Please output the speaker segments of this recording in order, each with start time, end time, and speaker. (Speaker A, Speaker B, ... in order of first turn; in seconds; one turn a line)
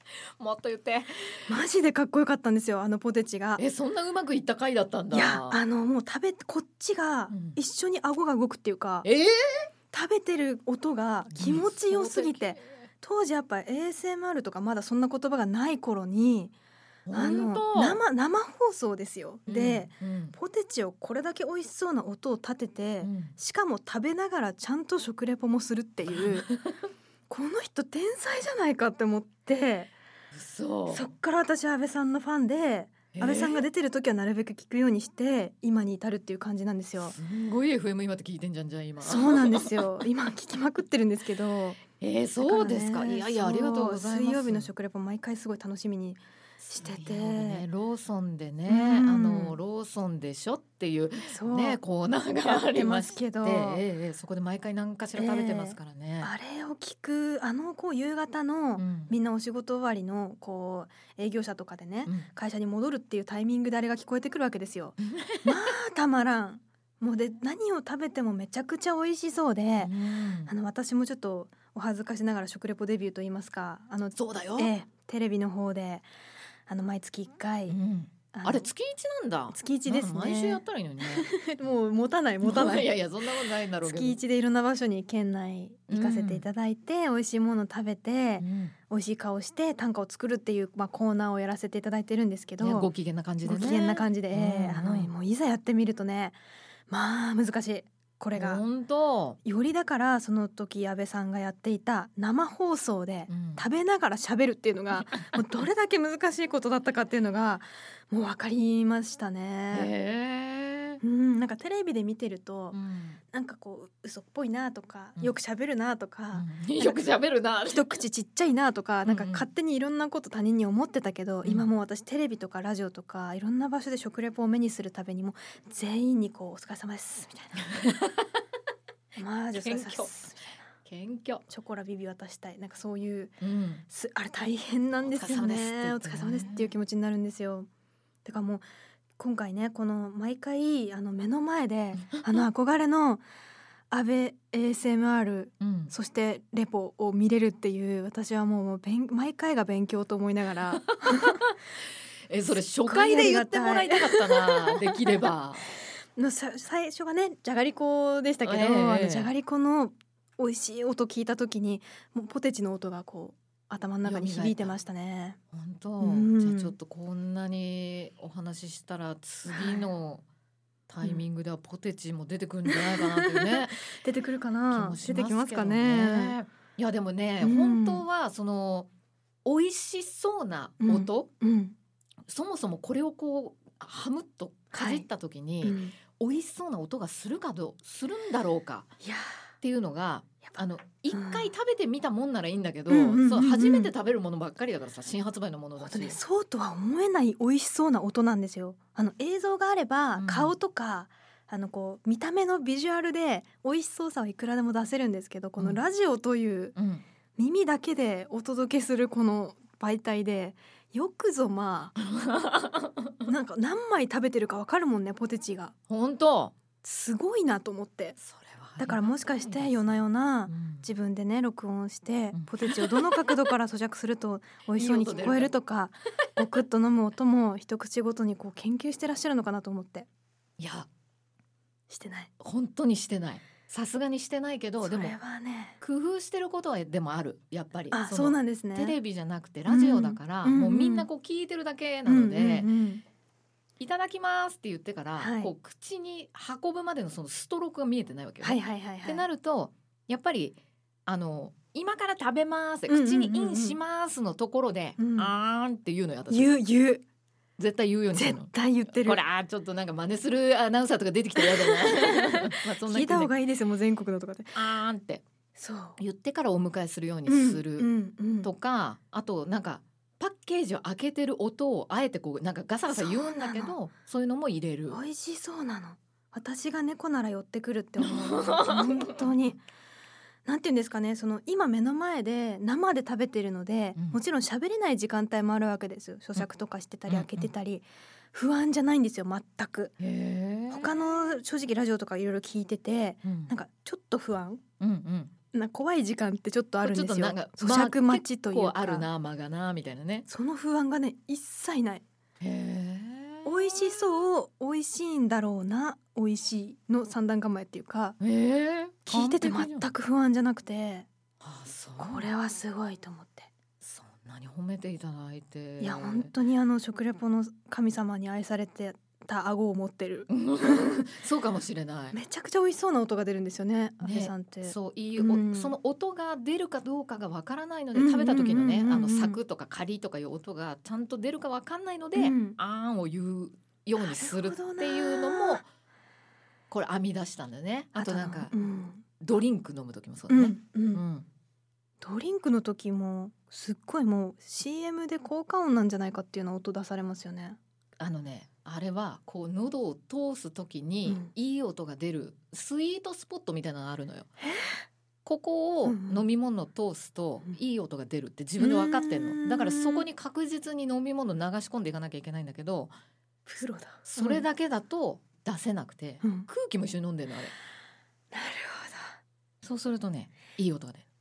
Speaker A: 0.4-1.5
Speaker B: 1.5-3.6
Speaker A: 3.6-5.6
Speaker B: 5.1-9.1
Speaker A: 7.3-7.6
Speaker A: 9.0-9.7
Speaker B: 9.9-16.5
Speaker A: 11.3-12.8
Speaker A: 17.1-18.0
Speaker B: 17.1-26.5
Speaker A: 19.5-20.4
Speaker A: 23.0-23.3
Speaker A: 26.1-26.7
Speaker B: 27.3-29.9
Speaker A: 30.3-31.1
Speaker B: 30.9-37.2
Speaker A: 33.1-33.6
Speaker A: 37.1-39.9
Speaker B: 39.0-41.8
Speaker A: 42.0-44.7
Speaker B: 42.4-47.6
Speaker A: 46.6-56.3
Speaker B: 48.7-49.6
Speaker B: 51.2-51.8
Speaker B: 52.4-53.8
Speaker B: 55.1-76.0
Speaker A: 58.8-59.1
Speaker A: 65.0-65.6
Speaker A: 69.8-70.5
Speaker A: 74.2-74.7
Speaker B: 76.7-77.8
Speaker A: 77.7-81.3
Speaker B: 78.3-78.7
Speaker B: 79.5-83.0
Speaker A: 82.4-84.2
Speaker B: 83.8-92.9
Speaker A: 85.9-86.4
Speaker A: 88.4-88.7
Speaker A: 92.6-95.1
Speaker B: 93.4-96.4
Speaker B: 96.9-98.6
Speaker A: 98.3-99.4
Speaker B: 99.4-109.9
Speaker A: 103.3-103.6
Speaker A: 105.1-105.4
Speaker A: 109.7-111.0
Speaker B: 111.0-112.8
Speaker A: 112.7-113.2
Speaker B: 113.3-117.1
Speaker A: 116.3-118.0
Speaker B: 117.6-127.7
Speaker A: 119.0-119.5
Speaker A: 127.7-128.3
Speaker B: 129.2-130.5
Speaker A: 129.5-130.3
Speaker A: 130.8-131.4
Speaker B: 131.5-137.7
Speaker A: 133.4-133.8
Speaker A: 135.0-136.7
Speaker B: 138.2-138.6
Speaker B: 139.2-143.2
Speaker B: 143.9-151.4
Speaker A: 145.6-145.9
Speaker A: 150.7-151.6
Speaker A: 152.3-155.7
Speaker B: 152.8-154.9
Speaker B: 156.2-165.4
Speaker A: 158.4-159.3
Speaker A: 164.0-164.7
Speaker A: 165.5-170.2
Speaker B: 166.0-166.8
Speaker B: 169.4-169.9
Speaker A: 170.9-173.8
Speaker B: 172.7-176.4
Speaker A: 174.7-178.9
Speaker B: 177.4-178.0
Speaker A: 179.4-181.3
Speaker B: 180.8-181.7
Speaker A: 182.3-188.9
Speaker B: 184.7-185.1
Speaker B: 185.6-185.9
Speaker B: 189.0-189.4
Speaker A: 189.6-196.2
Speaker B: 191.1-191.5
Speaker B: 192.9-193.9
Speaker B: 195.8-206.8
Speaker A: 200.2-200.5
Speaker A: 206.8-207.0
Speaker B: 207.4-211.9
Speaker A: 212.1-213.2
Speaker B: 213.2-215.7
Speaker A: 215.9-216.5
Speaker B: 216.8-218.2
Speaker A: 218.2-220.9
Speaker B: 218.8-230.1
Speaker A: 222.3-223.3
Speaker A: 224.7-225.5
Speaker A: 230.6-230.9
Speaker B: 231.9-232.3
Speaker A: 232.4-235.1
Speaker B: 234.8-235.8
Speaker A: 235.8-242.7
Speaker B: 237.9-239.0
Speaker B: 239.7-241.1
Speaker B: 242.0-243.0
Speaker A: 243.8-256.5
Speaker B: 245.2-245.5
Speaker B: 248.4-249.2
Speaker B: 252.9-253.8
Speaker B: 255.0-255.3
Speaker B: 256.3-257.0
Speaker A: 257.6-263.3
Speaker B: 258.1-259.2
Speaker B: 261.4-264.6
Speaker A: 264.5-265.2
Speaker B: 265.5-266.0
Speaker A: 266.0-267.9
Speaker B: 267.2-268.5
Speaker A: 268.4-275.0
Speaker B: 272.9-273.8
Speaker B: 274.9-279.6
Speaker A: 278.0-279.2
Speaker B: 280.4-289.9
Speaker A: 287.1-287.5
Speaker A: 290.0-290.9
Speaker B: 290.7-294.6
Speaker A: 293.2-293.5
Speaker A: 294.8-295.3
Speaker B: 295.5-299.1
Speaker A: 296.8-300.3
Speaker B: 300.3-302.0
Speaker A: 302.4-303.9
Speaker B: 303.4-308.2
Speaker A: 308.2-309.9
Speaker B: 309.1-311.1
Speaker A: 311.4-312.3
Speaker B: 312.0-313.5
Speaker A: 313.8-316.3
Speaker B: 315.8-321.0
Speaker A: 320.3-322.2
Speaker B: 322.1-325.7
Speaker A: 324.0-335.6
Speaker B: 327.9-329.4
Speaker B: 332.1-332.6
Speaker B: 334.0-335.6
Speaker A: 336.7-338.5
Speaker B: 337.9-339.0
Speaker A: 339.2-341.2
Speaker B: 340.3-341.0
Speaker B: 342.0-347.6
Speaker A: 348.0-354.3
Speaker B: 351.1-351.3
Speaker B: 354.4-354.9
Speaker A: 355.2-362.9
Speaker B: 355.8-356.2
Speaker B: 358.6-360.1
Speaker B: 363.4-364.4
Speaker A: 364.1-367.5
Speaker B: 366.2-366.5
Speaker B: 368.3-369.2
Speaker A: 369.6-371.0